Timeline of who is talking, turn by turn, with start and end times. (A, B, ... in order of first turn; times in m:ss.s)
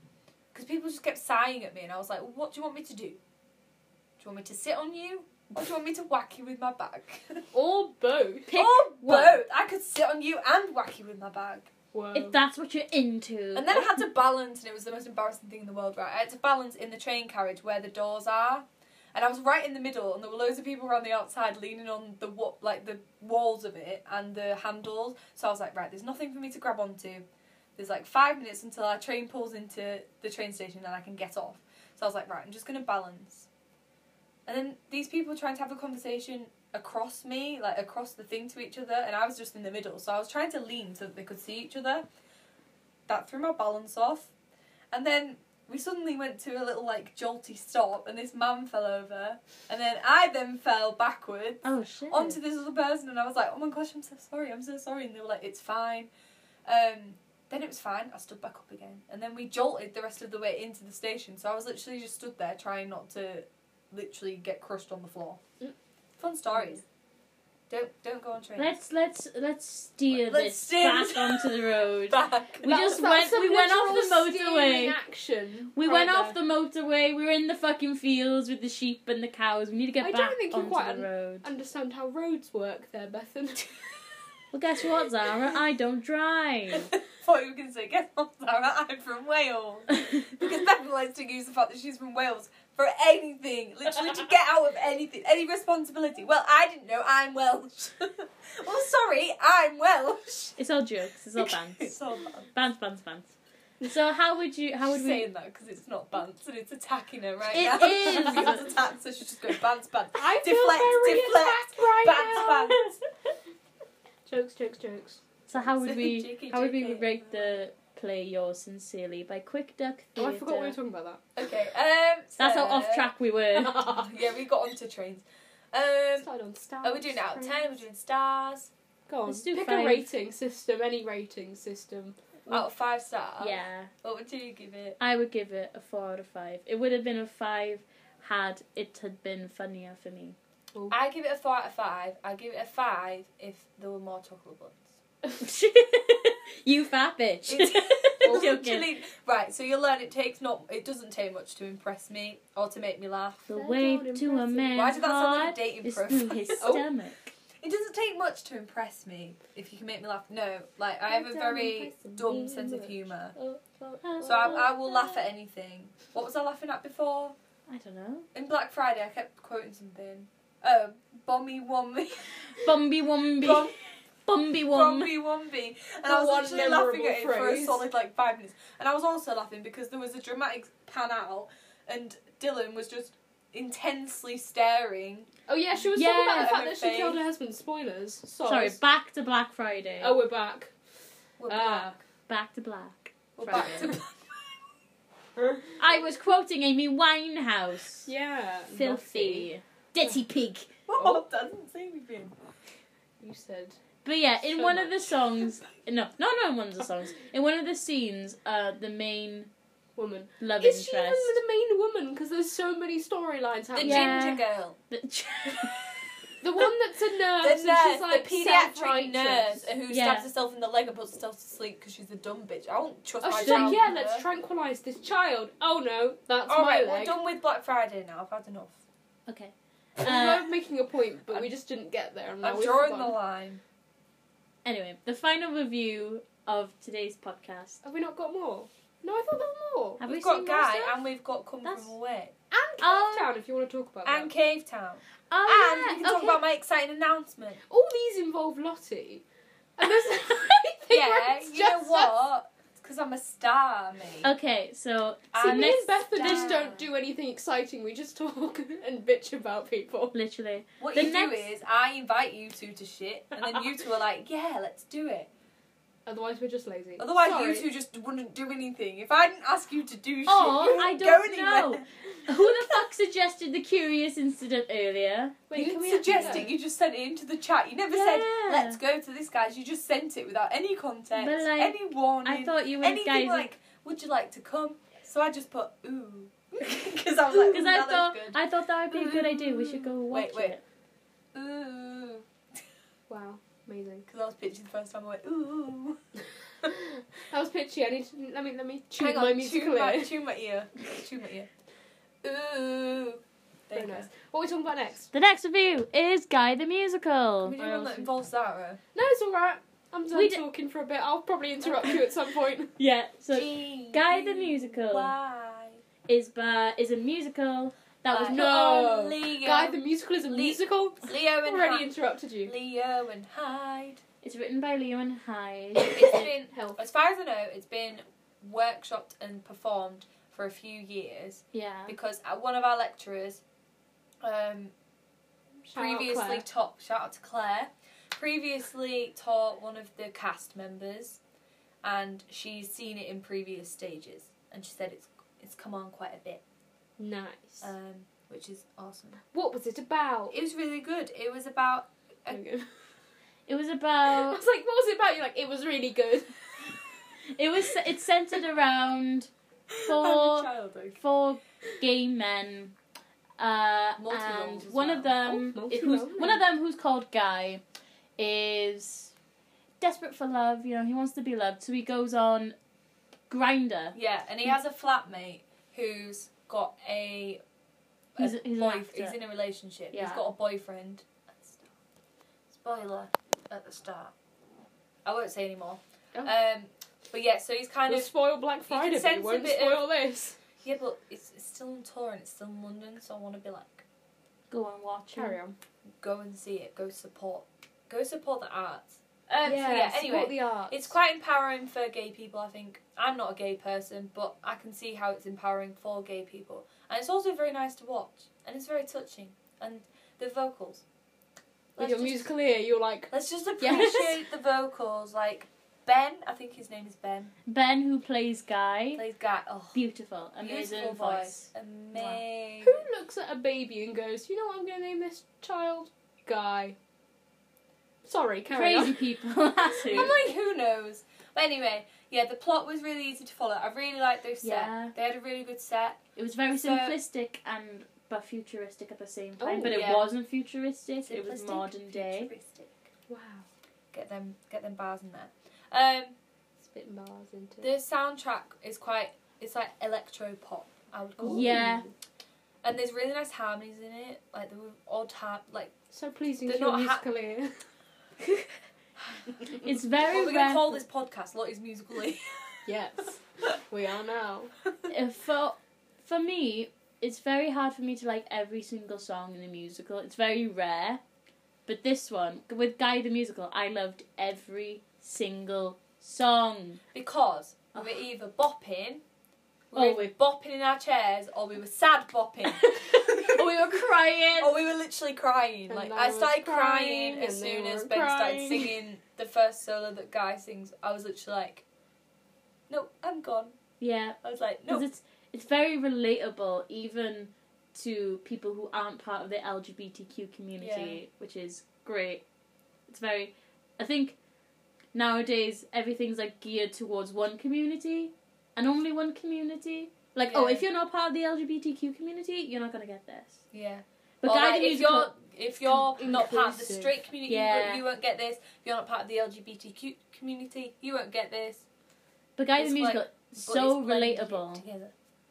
0:00.5-0:03.2 A
0:04.2-0:07.4 A
0:07.5-0:08.5 B
0:08.5-0:09.4 C
0:08.5-0:11.7 A
0:11.9-0:12.4 B
0:12.1-0:14.0 C
0:13.5-0:27.2 A
0:27.8-0:33.5 A
0:34.5-0:42.0 A
0:43.1-0:44.3 A
0:44.9-0:56.1 A
0:51.6-0:52.4 C
0:56.7-1:05.4 A
1:06.2-1:06.8 A
1:06.6-1:06.8 B
1:07.7-1:08.8 A
1:08.6-1:15.0 C
1:10.1-1:12.7 A
1:12.6-1:16.4 B
1:15.8-1:21.5 C
1:20.0-1:23.8 B
1:24.5-1:26.9 C
1:26.9-1:40.6 A
1:40.6-1:42.0 C
1:41.4-1:42.5 A
1:42.5-1:45.3 C
1:44.8-1:52.9 A
1:47.5-1:48.8 C
1:50.2-1:52.8 B
1:54.3-1:55.2 B
1:55.5-2:00.8 C
1:55.6-1:57.6 A
2:00.2-2:01.2 B
2:01.4-2:03.1 A
2:02.4-2:03.9 C
2:03.8-2:06.3 A
2:06.2-2:07.8 B
2:06.8-2:08.7 A
2:09.1-2:12.2 B
2:09.3-2:10.1 C
2:12.5-2:15.0 A
2:13.4-2:13.9 C
2:15.0-2:20.4 C
2:20.9-2:24.9 A
2:25.4-2:28.9 C
2:27.5-2:33.5 A
2:33.5-2:37.3 C
2:33.5-2:34.9 B
2:34.7-2:36.8 A
2:36.6-2:36.9 B
2:37.6-2:43.4 A
2:41.1-2:44.7 B
2:43.4-2:45.2 C
2:44.2-2:47.3 A
2:47.7-2:48.3 C
2:48.3-2:52.6 A
2:52.6-2:53.7 C
2:53.4-2:53.8 A
2:54.3-2:55.1 C
2:54.7-3:05.3 A
2:56.1-2:57.8 B
3:05.5-3:08.8 B
3:06.0-3:06.6 C
3:06.2-3:07.2 A
3:08.4-3:10.2 C
3:10.0-3:10.7 B
3:11.4-3:12.0 A
3:11.5-3:12.0 B
3:12.3-3:13.9 C
3:13.4-3:14.2 A
3:15.4-3:15.6 B
3:15.8-3:18.1 C
3:18.0-3:19.5 B
3:18.7-3:20.7 C
3:20.9-3:22.4 A
3:23.2-3:23.8 B
3:24.0-3:29.5 C
3:24.4-3:25.2 B
3:30.0-3:34.2 B
3:30.4-3:31.4 C
3:33.7-3:34.8 A
3:33.8-3:35.8 C
3:36.4-3:39.6 B
3:37.4-3:44.2 A
3:39.9-3:40.3 C
3:43.2-3:47.2 B
3:43.4-3:43.8 C
3:46.5-3:48.8 A
3:49.3-3:50.5 C
3:50.0-3:53.2 B
3:52.4-3:53.6 A
3:54.6-3:57.8 C
3:57.8-4:00.0 B
4:00.0-4:01.0 C
4:00.0-4:02.3 A
4:01.6-4:01.9 C
4:02.5-4:04.3 B
4:02.8-4:03.3 C
4:04.0-4:07.6 A
4:05.3-4:06.4 C
4:07.7-4:09.2 B
4:09.8-4:12.1 B
4:10.9-4:14.3 A
4:14.2-4:16.6 C
4:15.3-4:16.9 A
4:15.4-4:20.2 B
4:20.1-4:21.5 C
4:20.8-4:25.3 A
4:26.1-4:27.7 B
4:27.0-4:32.6 A
4:30.3-4:36.5 C
4:35.5-4:36.5 B
4:35.5-4:48.4 A
4:37.9-4:38.8 C
4:41.2-4:43.5 C
4:47.4-4:50.6 C
4:48.9-4:50.6 A
4:51.3-4:52.2 A
4:53.1-4:54.1 B
4:54.1-4:56.0 A
4:56.7-5:00.2 B
4:59.0-5:01.5 A
5:02.2-5:04.1 A
5:03.7-5:05.1 B
5:05.1-5:07.6 C
5:07.4-5:08.8 A
5:07.6-5:08.1 B
5:09.0-5:12.7 B
5:10.1-5:10.4 C
5:12.8-5:15.1 C
5:13.3-5:15.8 A
5:16.1-5:18.9 C
5:18.1-5:21.9 A
5:18.3-5:22.5 B
5:22.4-5:24.0 A
5:24.2-5:26.3 C
5:25.8-5:33.4 A
5:26.5-5:26.8 B
5:31.5-5:32.0 C
5:34.2-5:34.7 A
5:35.7-5:41.2 A
5:35.7-5:36.4 B
5:41.8-5:46.4 A
5:47.0-5:47.7 B
5:47.6-5:49.2 A
5:49.3-5:50.3 B
5:50.3-5:52.4 A
5:52.3-5:52.7 B
5:53.5-5:54.4 C
5:54.1-5:56.3 B
5:57.4-5:59.3 C
5:59.8-6:01.0 A
5:59.8-6:02.8 C
6:03.4-6:07.6 C
6:04.0-6:05.2 A
6:05.2-6:06.4 B
6:08.2-6:09.1 C
6:09.8-6:12.6 C
6:13.3-6:14.0 C
6:13.9-6:17.4 A
6:18.2-6:21.7 A
6:18.2-6:19.2 C
6:19.9-6:20.2 C
6:22.5-6:24.1 A
6:25.0-6:28.1 A
6:27.9-6:30.4 B
6:28.7-6:29.9 A
6:30.6-6:33.8 A
6:34.5-6:35.4 C
6:35.2-6:35.6 B
6:36.0-6:50.8 A
6:39.4-6:40.9 B
6:51.8-6:52.3 A
6:51.8-6:54.2 B
6:53.1-6:57.3 A
6:53.7-6:54.0 C
6:57.5-6:59.0 C
6:59.0-6:59.8 A
6:59.7-7:01.5 C
7:00.4-7:02.9 A
7:02.0-7:06.8 B
7:08.0-7:09.0 B
7:08.5-7:10.2 C
7:09.8-7:10.4 B
7:09.8-7:16.0 A
7:14.4-7:14.9 C
7:16.2-7:22.3 C
7:16.5-7:17.0 A
7:19.4-7:19.8 B
7:19.6-7:20.1 A
7:21.0-7:22.9 A
7:23.1-7:23.5 B
7:23.9-7:26.2 A
7:26.6-7:27.7 B
7:27.6-7:31.7 A
7:31.2-7:31.9 B
7:31.3-7:31.9 C
7:32.6-7:35.7 A
7:35.9-7:37.6 B
7:36.5-7:37.0 A
7:39.6-7:40.8 C
7:40.0-7:42.5 A
7:42.6-7:44.5 B
7:44.9-7:51.0 C
7:51.7-7:56.8 C
7:56.9-7:59.0 A
7:59.7-8:03.5 A
7:59.7-8:00.1 C
8:02.7-8:04.6 C
8:04.4-8:11.6 A
8:05.7-8:08.7 B
8:12.7-8:13.6 A
8:13.8-8:22.2 C
8:14.2-8:14.9 A
8:20.6-8:21.0 A
8:22.9-8:24.2 C
8:24.9-8:33.4 C
8:30.3-8:30.6 A
8:33.5-8:41.6 A
8:34.2-8:35.1 C
8:35.7-8:37.0 B
8:37.3-8:37.8 C
8:42.4-8:44.6 C
8:42.6-8:44.9 A